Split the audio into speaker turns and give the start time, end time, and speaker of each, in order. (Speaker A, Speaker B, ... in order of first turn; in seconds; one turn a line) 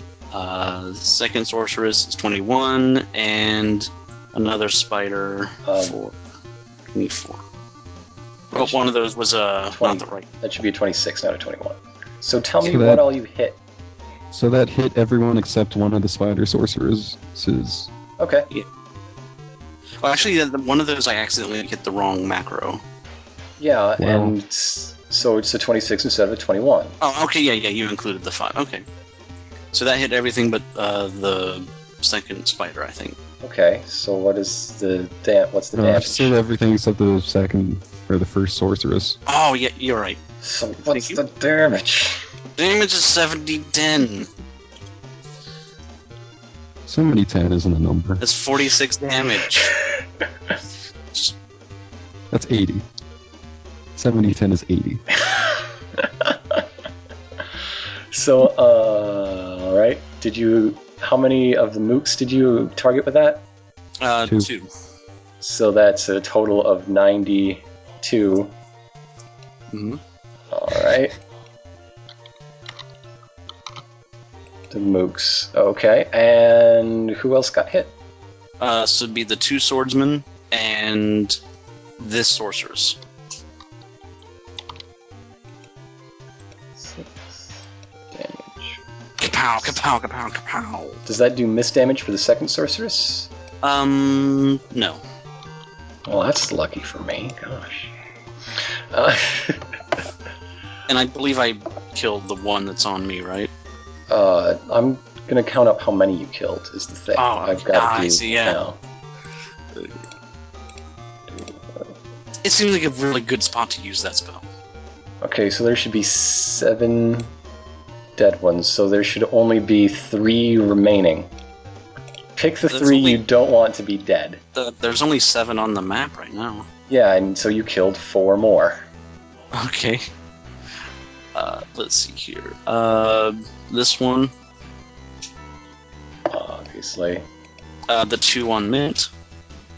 Speaker A: 0.3-6.2
Speaker B: 5.7-6.0
Speaker A: 6.9-7.4
Speaker B: 8.5-8.8
Speaker A: 8.5-10.2
Speaker B: 9.7-13.6
Speaker C: 12.6-13.1
Speaker C: 14.3-17.9
Speaker B: 18.2-18.5
Speaker A: 20.0-22.8
Speaker B: 23.6-26.9
Speaker C: 24.0-24.3
Speaker A: 27.0-28.8
Speaker A: 29.7-33.2
Speaker B: 33.4-36.4
Speaker C: 35.7-39.2
Speaker A: 39.2-40.2
Speaker B: 40.4-42.2
Speaker A: 40.8-41.2
Speaker A: 42.6-44.3
Speaker C: 46.9-48.2
Speaker A: 48.2-49.7
Speaker C: 52.3-52.9
Speaker C: 54.0-55.0
Speaker B: 58.1-63.4
Speaker A: 64.0-64.7
Speaker B: 65.4-68.5
Speaker A: 69.7-70.0
Speaker B: 70.5-71.1
Speaker B: 74.7-77.9
Speaker A: 78.6-81.4
Speaker A: 82.0-83.0
Speaker B: 86.8-87.5
Speaker B: 88.1-88.8
Speaker A: 89.2-91.0
Speaker B: 91.0-93.3
Speaker A: 93.6-95.0
Speaker B: 96.0-97.9
Speaker B: 98.9-99.7
Speaker A: 100.9-103.5
Speaker B: 104.1-108.8
Speaker A: 107.1-108.6
Speaker B: 111.3-111.9
Speaker A: 112.4-114.4
Speaker B: 115.2-117.3
Speaker B: 118.2-121.3
Speaker B: 122.3-124.4
Speaker A: 122.7-123.2
Speaker A: 124.5-126.7
Speaker B: 126.9-128.8
Speaker A: 129.5-130.0
Speaker A: 131.3-134.3
Speaker B: 136.3-137.2
Speaker A: 137.9-139.1